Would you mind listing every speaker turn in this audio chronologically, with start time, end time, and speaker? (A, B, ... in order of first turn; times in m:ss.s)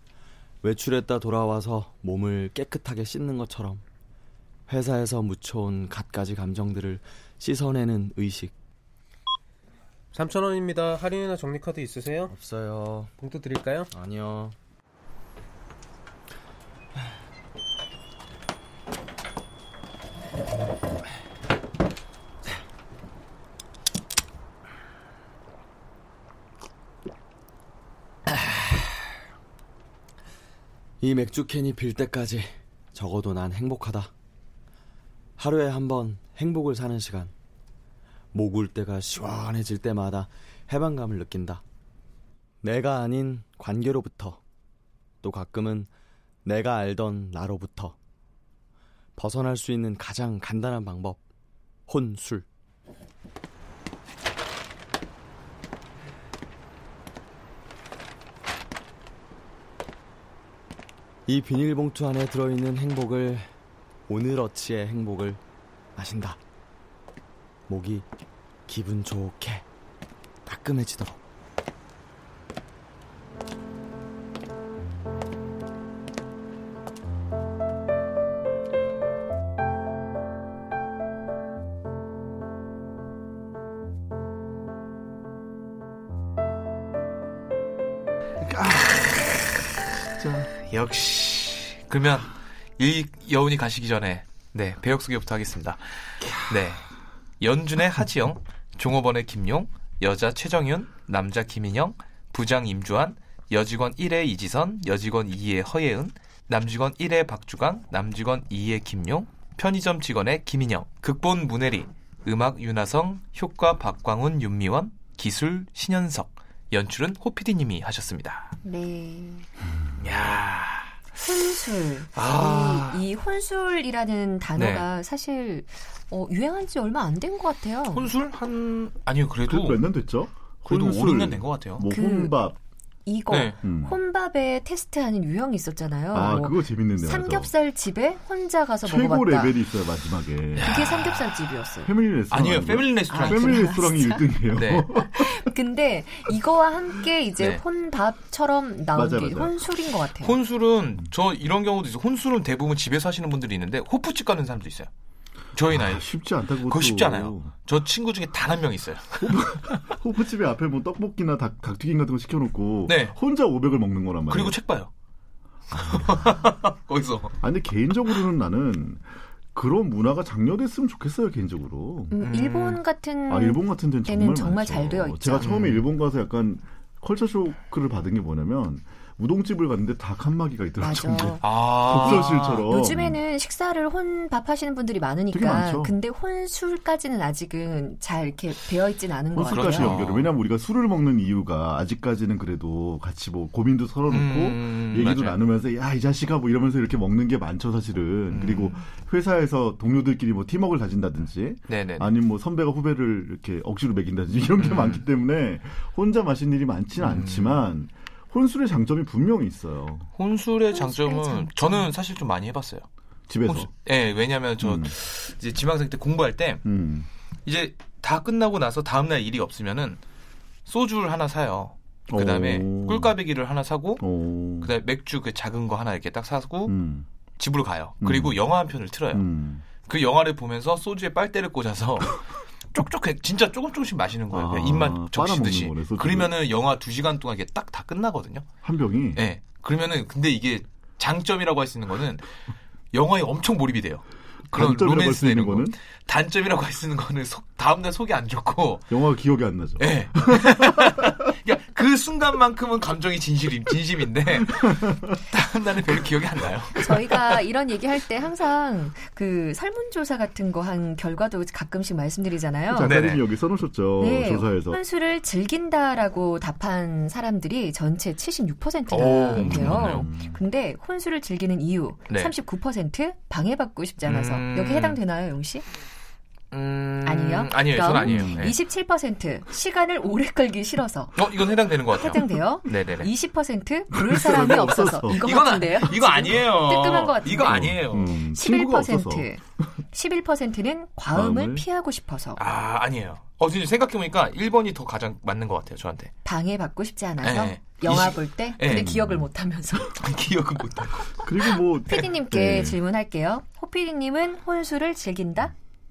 0:00.6-0:03.8 A
0:04.7-0:08.5 A
0:10.1-0:12.3 B
0:12.3-0:13.1 A
0:13.2-0:13.9 B
0:13.9-0:14.5 A
0:31.0-0:34.1 A
0:35.4-0:37.3 A
0:38.3-0:41.6 A
0:42.6-0:44.4 A
0:45.2-0:45.9 A
0:46.4-0:48.0 A
0:49.2-0:51.2 A
0:51.9-0:52.4 A
1:01.3-1:03.5 A
1:04.1-1:05.4 A
1:06.0-1:06.4 A
1:07.7-1:08.1 A
1:08.7-1:09.6 A
1:10.4-1:11.2 A
1:28.4-1:29.1 C
1:30.0-1:30.5 C
1:30.7-1:36.9 D
1:37.4-1:58.5 D
1:58.6-1:59.5 E
2:00.0-2:00.9 D
2:01.2-2:08.1 E
2:02.1-2:03.0 D
2:04.6-2:04.8 D
2:07.9-2:09.9 D
2:09.5-2:12.6 C
2:10.6-2:11.9 D
2:11.9-2:12.4 E
2:13.0-2:19.6 E
2:13.3-2:13.6 D
2:13.6-2:14.0 C
2:16.1-2:17.5 C
2:18.8-2:20.9 C
2:20.6-2:21.2 D
2:20.6-2:21.9 E
2:21.8-2:25.5 C
2:22.3-2:23.8 D
2:23.1-2:24.3 E
2:24.5-2:24.9 D
2:25.0-2:30.4 E
2:28.9-2:29.8 C
2:30.2-2:34.9 D
2:35.5-2:36.1 D
2:35.7-2:37.6 C
2:36.6-2:39.4 D
2:39.2-2:44.6 C
2:42.8-2:43.1 D
2:44.3-2:44.9 D
2:45.7-2:47.4 D
2:45.8-2:46.2 C
2:47.4-2:52.2 C
2:52.1-2:55.5 E
2:52.2-2:52.8 D
2:53.3-3:03.2 C
2:55.4-2:55.8 D
3:00.8-3:10.0 E
3:01.4-3:02.6 D
3:05.3-3:06.0 C
3:09.3-3:30.1 C
3:09.4-3:10.3 D
3:14.1-3:15.4 D
3:18.3-3:18.8 D
3:21.7-3:22.1 D
3:24.6-3:25.0 D
3:27.0-3:27.6 D
3:30.1-3:32.8 D
3:30.7-3:31.9 E
3:33.3-3:33.7 C
3:33.4-3:36.6 D
3:34.6-3:34.9 C
3:36.6-3:37.1 C
3:37.4-3:40.0 D
3:40.6-3:44.0 D
3:42.1-3:43.2 C
3:44.0-3:44.7 C
3:44.6-3:46.7 D
3:46.7-3:47.1 C
3:47.4-3:49.2 D
3:48.0-3:48.4 C
3:49.1-3:49.6 C
3:49.8-3:58.4 D
3:54.3-3:56.3 C
3:58.6-3:59.2 C
3:59.1-4:02.2 D
4:02.9-4:08.9 D
4:04.5-4:05.8 C
4:08.9-4:11.1 C
4:09.8-4:17.4 D
4:14.6-4:15.1 C
4:16.8-4:23.0 E
4:22.7-4:24.8 C
4:22.8-4:23.3 D
4:24.0-4:35.6 E
4:28.9-4:30.0 D
4:29.3-4:30.4 C
4:34.0-4:35.0 D
4:36.5-4:38.5 D
4:37.0-4:47.7 E
4:38.0-4:38.5 C
4:41.2-4:43.1 D
4:43.9-4:45.2 C
4:45.2-4:48.2 D
4:47.4-4:49.3 C
4:48.3-4:49.4 E
4:49.9-4:52.4 E
4:51.1-4:51.6 C
4:52.4-4:56.1 D
4:56.2-4:59.9 E
4:57.2-4:58.9 D
4:58.6-4:59.2 C
4:59.9-5:01.4 D
5:01.2-5:02.8 C
5:01.9-5:05.5 E